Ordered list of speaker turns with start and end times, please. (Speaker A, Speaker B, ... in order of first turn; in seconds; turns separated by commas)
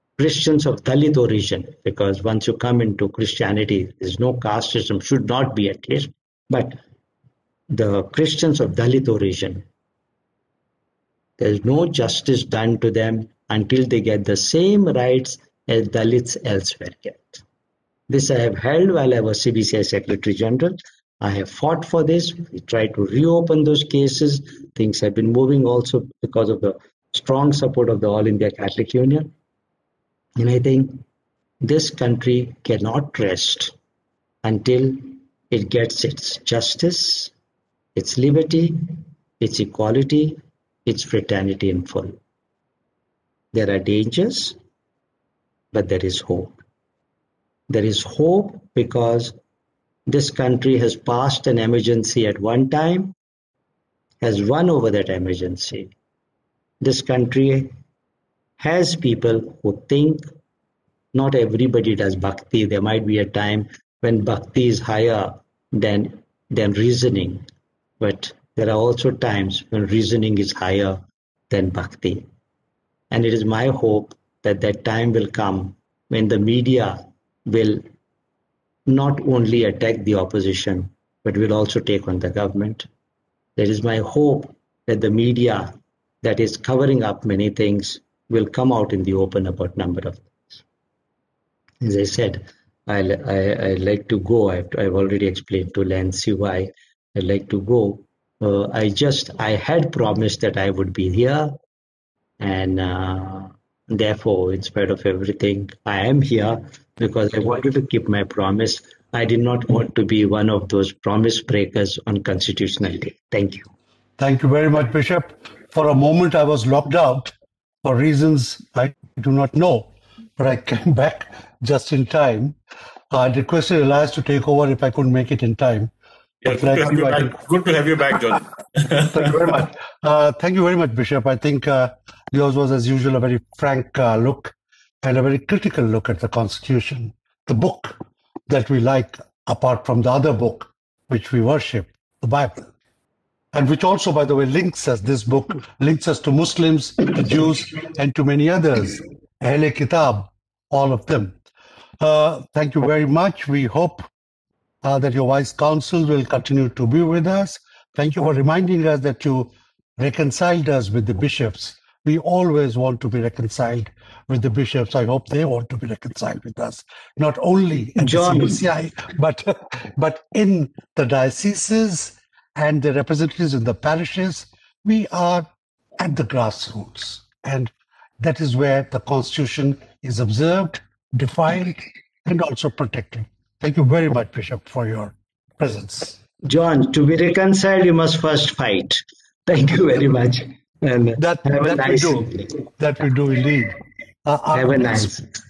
Speaker A: 0.2-6.8, Speaker A: 7.7-9.7, Speaker A: 11.4-17.4, Speaker A: 18.1-29.3, Speaker A: 30.4-31.0, Speaker A: 31.6-33.7, Speaker A: 34.4-37.3, Speaker A: 37.9-42.2, Speaker A: 43.5-44.5, Speaker A: 45.7-46.6, Speaker A: 47.7-49.4, Speaker A: 50.1-53.1, Speaker A: 54.2-55.9, Speaker A: 56.8-57.7, Speaker A: 58.6-60.2, Speaker A: 61.1-67.5, Speaker A: 68.0-72.3, Speaker A: 73.1-77.8, Speaker A: 78.9-82.9, Speaker A: 83.6-90.6, Speaker A: 91.8-101.6, Speaker A: 102.4-113.7, Speaker B: 114.2-117.3, Speaker B: 117.8-122.5, Speaker B: 123.1-125.9, Speaker C: 126.4-128.4, Speaker B: 126.5-127.4, Speaker B: 129.1-137.9, Speaker B: 138.5-142.7, Speaker B: 143.5-151.3, Speaker B: 152.0-154.0, Speaker B: 154.8-175.5, Speaker A: 168.0-168.6, Speaker B: 176.0-186.2, Speaker A: 186.4-192.6, Speaker B: 191.2-195.2, Speaker A: 194.5-195.2